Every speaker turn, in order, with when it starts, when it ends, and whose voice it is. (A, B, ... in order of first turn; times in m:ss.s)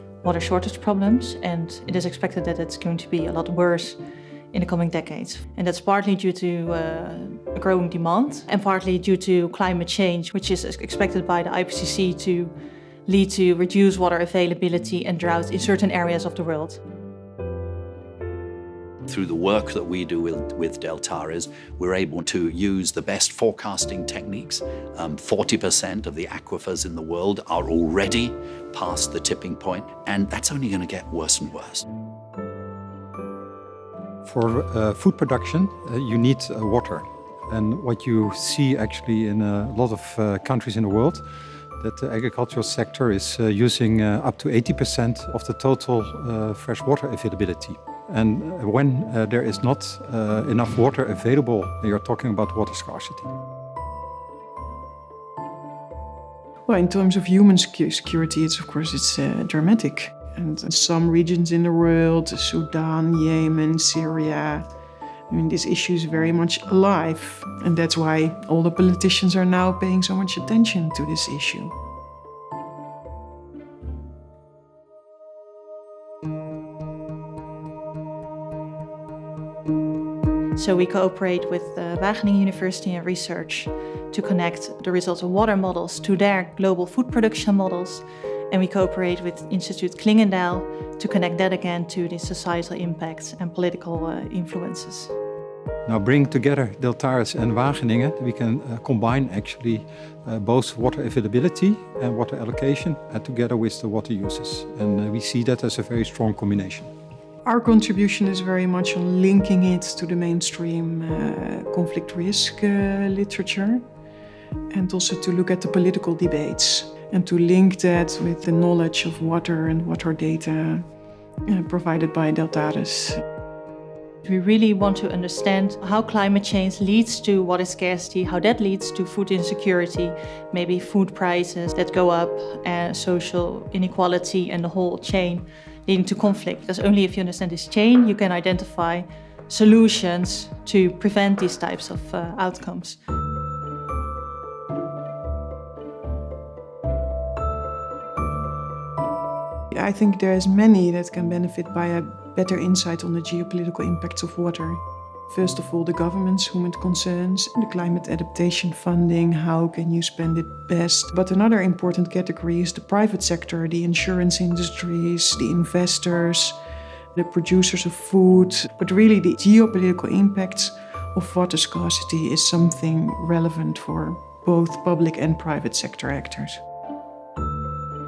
0:00.2-0:04.0 A
0:04.5-0:12.5 A
0:13.1-0:16.8 A
0:19.1-0:31.9 B
0:34.2-0:41.2 C
0:41.8-0:53.3 C
0:56.7-1:04.6 D
1:05.3-1:11.7 D
1:20.6-1:35.1 A
1:35.9-1:46.9 C
1:47.4-1:53.8 D
1:54.7-2:00.8 D
2:01.5-2:03.2 D
2:04.2-2:23.0 A
2:29.7-2:46.6 D
2:47.2-2:56.6 D